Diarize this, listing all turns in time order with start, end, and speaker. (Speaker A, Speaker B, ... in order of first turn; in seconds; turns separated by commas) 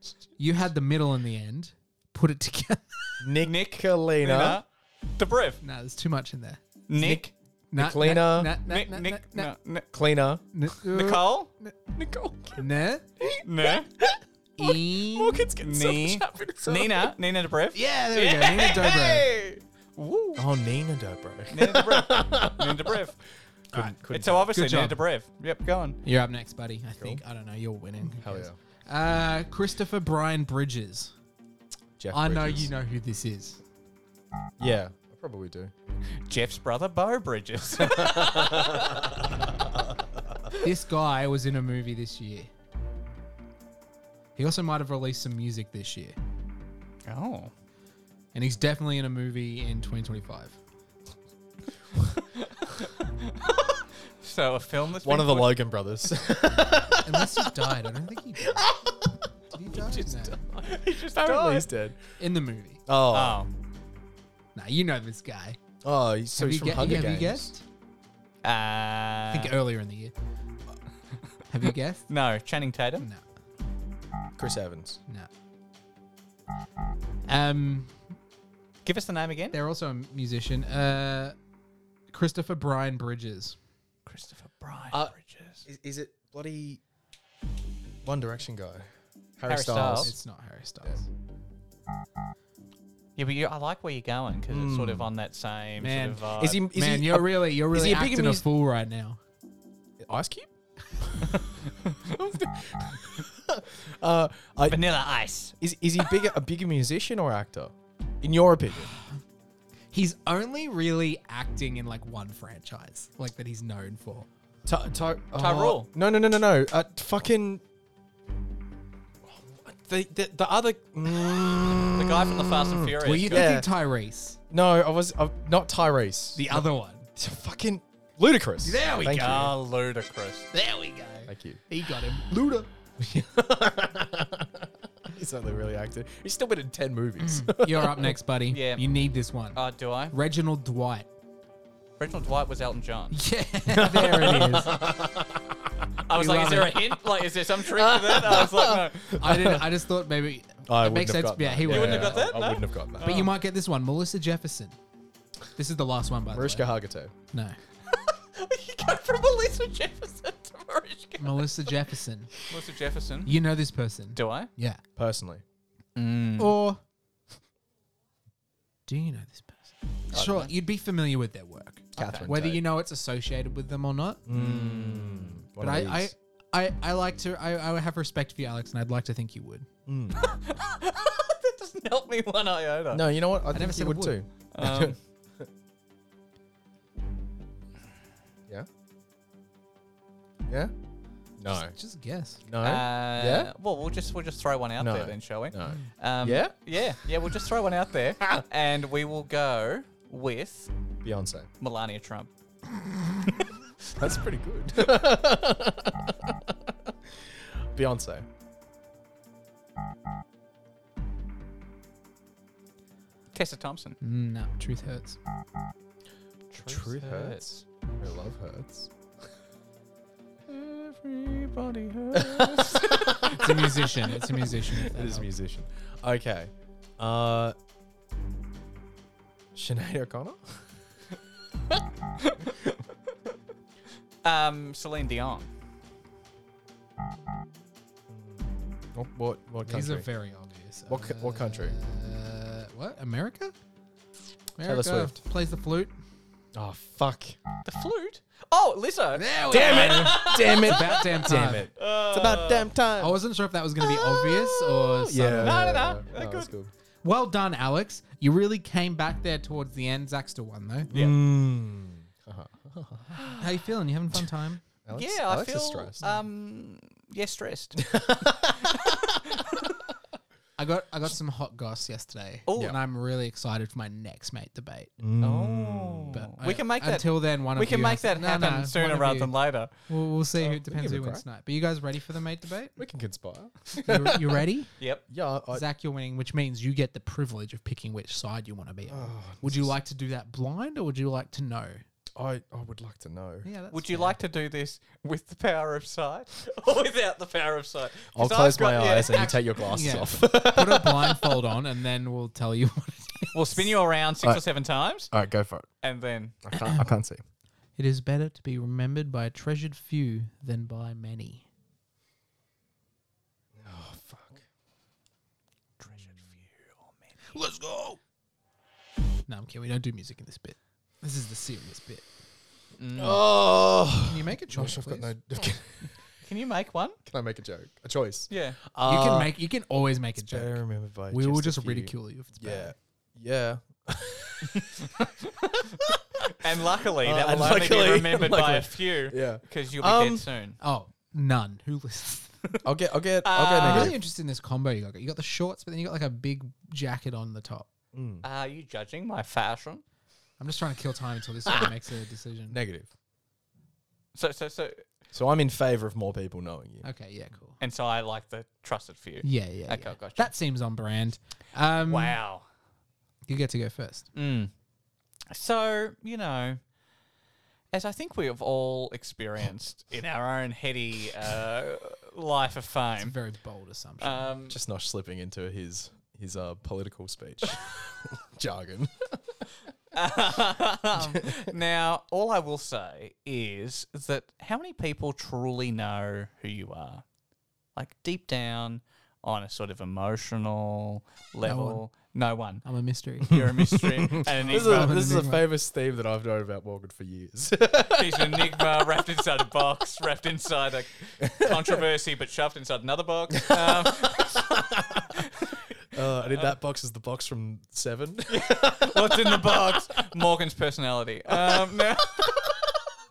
Speaker A: 0.4-3.2, Speaker B: 3.2-4.6, Speaker C: 3.4-5.6, Speaker A: 5.6-6.6, Speaker C: 6.9-7.3, Speaker B: 7.0-8.6, Speaker A: 7.7-9.5, Speaker C: 8.6-9.9, Speaker B: 9.9-10.4, Speaker A: 10.5-11.8, Speaker C: 10.9-11.5, Speaker B: 11.9-12.7, Speaker A: 12.6-13.1, Speaker B: 13.2-17.1, Speaker C: 13.4-13.9, Speaker A: 14.6-15.5, Speaker C: 15.6-20.4, Speaker A: 17.7-19.3, Speaker B: 20.4-23.1, Speaker C: 21.5-23.1, Speaker B: 23.7-24.5, Speaker C: 24.1-26.0, Speaker A: 24.5-25.0, Speaker A: 26.0-31.1, Speaker B: 28.2-28.6, Speaker B: 32.0-32.7, Speaker A: 32.1-33.6, Speaker B: 34.6-35.7, Speaker C: 36.3-39.0, Speaker B: 37.8-40.4, Speaker A: 40.6-42.5, Speaker A: 44.4-46.1, Speaker C: 47.0-47.5, Speaker A: 48.3-50.6, Speaker C: 52.4-55.6, Speaker B: 55.0-57.5, Speaker A: 57.0-58.6, Speaker B: 58.4-62.0, Speaker A: 59.5-60.4, Speaker C: 60.7-61.7, Speaker A: 62.2-62.8, Speaker B: 62.9-63.4, Speaker C: 63.1-63.5, Speaker A: 64.5-65.6, Speaker B: 65.8-67.5, Speaker A: 66.3-67.6, Speaker C: 68.4-69.5, Speaker A: 69.3-70.1, Speaker A: 71.5-72.0, Speaker C: 72.1-73.1, Speaker B: 74.4-75.0, Speaker A: 77.3-78.0, Speaker C: 78.8-79.6, Speaker A: 79.5-81.3, Speaker A: 82.1-83.5, Speaker C: 84.0-85.6, Speaker B: 84.9-86.8, Speaker B: 88.0-88.8, Speaker B: 89.4-90.1, Speaker C: 89.5-90.1, Speaker A: 89.9-91.0, Speaker C: 93.2-96.6, Speaker B: 94.5-95.1, Speaker A: 95.8-99.2, Speaker B: 96.3-98.5, Speaker B: 100.0-104.9, Speaker C: 104.7-106.1, Speaker B: 105.6-108.9, Speaker A: 109.9-114.3, Speaker B: 114.7-117.6, Speaker C: 115.3-115.9, Speaker B: 119.2-123.7, Speaker C: 121.9-123.5, Speaker A: 123.0-124.4, Speaker B: 124.5-129.5, Speaker A: 126.3-127.0, Speaker A: 128.6-129.5, Speaker C: 129.1-130.5, Speaker A: 130.5-132.7, Speaker B: 131.3-131.6, Speaker B: 133.0-138.2, Speaker A: 137.2-139.6, Speaker C: 138.5-138.8, Speaker C: 139.5-140.1, Speaker A: 140.1-141.1, Speaker C: 142.0-143.2, Speaker A: 143.1-144.8, Speaker B: 143.7-145.9, Speaker C: 146.1-149.1, Speaker A: 146.1-146.9, Speaker B: 147.6-149.7, Speaker A: 149.2-152.3, Speaker B: 150.7-153.3, Speaker C: 151.7-153.3, Speaker A: 153.0-154.8, Speaker A: 155.5-156.7, Speaker B: 156.3-157.1, Speaker A: 157.3-157.6, Speaker C: 157.9-161.7, Speaker A: 161.2-162.3, Speaker C: 162.5-163.4, Speaker A: 163.2-164.8, Speaker C: 164.1-164.5, Speaker B: 164.9-165.4, Speaker C: 165.9-166.6, Speaker A: 166.4-166.8, Speaker A: 168.9-174.2, Speaker C: 170.1-170.5, Speaker B: 171.9-172.6, Speaker C: 172.0-172.3, Speaker B: 174.2-176.1, Speaker C: 174.3-175.4, Speaker A: 175.6-179.7, Speaker B: 179.8-180.2, Speaker C: 180.2-183.1, Speaker B: 182.9-185.5, Speaker A: 183.5-184.2, Speaker C: 184.5-185.0, Speaker B: 191.4-191.8, Speaker A: 191.5-192.4, Speaker B: 192.4-193.5, Speaker C: 192.6-200.7, Speaker B: 194.8-196.5, Speaker B: 201.0-201.5, Speaker C: 201.6-202.3, Speaker B: 203.9-208.2, Speaker C: 213.3-214.0, Speaker A: 214.0-215.2, Speaker C: 216.5-217.6, Speaker B: 216.6-218.9, Speaker C: 220.5-223.6, Speaker B: 222.1-223.6, Speaker A: 223.3-225.3, Speaker B: 224.4-227.5, Speaker B: 229.5-230.6, Speaker C: 232.2-232.7, Speaker C: 234.2-235.5, Speaker B: 238.1-240.1, Speaker A: 239.6-243.5, Speaker B: 240.9-241.8, Speaker A: 244.6-245.9, Speaker B: 244.6-245.2, Speaker B: 246.5-247.4, Speaker C: 247.6-252.7, Speaker A: 249.1-251.7, Speaker B: 249.5-253.2, Speaker A: 253.0-255.6, Speaker C: 253.8-256.5, Speaker B: 255.0-256.7, Speaker A: 257.0-260.9, Speaker C: 260.9-261.2, Speaker B: 260.9-263.3, Speaker C: 263.1-263.4, Speaker A: 263.4-264.6, Speaker B: 264.8-266.2, Speaker C: 264.9-267.9, Speaker B: 267.8-269.2, Speaker C: 268.7-269.6, Speaker A: 270.6-274.9, Speaker C: 272.5-272.8, Speaker B: 275.0-276.2, Speaker C: 275.2-279.7, Speaker A: 276.1-279.3, Speaker A: 279.9-282.8, Speaker B: 280.4-281.2, Speaker B: 282.8-284.4, Speaker A: 283.8-284.7, Speaker B: 285.1-285.6, Speaker A: 285.5-291.8, Speaker B: 288.9-289.7, Speaker B: 292.1-293.5, Speaker A: 293.4-294.1, Speaker C: 293.7-299.4, Speaker B: 298.1-301.4, Speaker A: 299.1-303.6, Speaker C: 303.3-305.1, Speaker B: 305.1-305.7, Speaker C: 305.8-306.4, Speaker B: 306.4-307.2, Speaker A: 307.8-311.4, Speaker B: 313.6-314.4, Speaker C: 315.8-317.1, Speaker A: 317.3-318.0, Speaker A: 319.3-322.0, Speaker C: 322.8-323.2, Speaker B: 323.0-326.0, Speaker A: 324.0-325.1, Speaker C: 326.2-327.0, Speaker B: 327.1-329.3, Speaker C: 328.3-328.6, Speaker A: 328.8-332.7, Speaker B: 330.2-335.1, Speaker B: 335.6-340.3, Speaker C: 336.3-340.6, Speaker A: 340.6-342.5, Speaker B: 342.6-344.0, Speaker C: 343.2-343.9, Speaker A: 343.6-347.7, Speaker B: 347.9-348.2, Speaker C: 348.2-349.8, Speaker A: 350.4-352.6, Speaker B: 352.5-352.9, Speaker C: 354.1-354.8, Speaker B: 355.1-356.9, Speaker A: 356.8-357.6, Speaker C: 357.6-360.3, Speaker A: 359.2-362.2, Speaker C: 361.8-362.4, Speaker A: 363.3-364.1, Speaker C: 364.1-364.5, Speaker C: 365.3-366.6, Speaker C: 367.7-373.1, Speaker A: 373.0-374.3, Speaker C: 374.0-374.6, Speaker B: 374.5-379.5, Speaker C: 379.9-387.0, Speaker B: 381.0-381.5, Speaker C: 387.7-392.6, Speaker A: 391.4-391.8, Speaker A: 392.6-393.4, Speaker C: 393.2-395.0, Speaker B: 393.3-398.9, Speaker A: 394.3-395.4, Speaker C: 397.9-404.5, Speaker B: 401.2-401.8, Speaker B: 403.5-405.0, Speaker C: 405.1-405.6, Speaker B: 405.9-410.0, Speaker C: 408.3-412.6, Speaker B: 411.3-412.5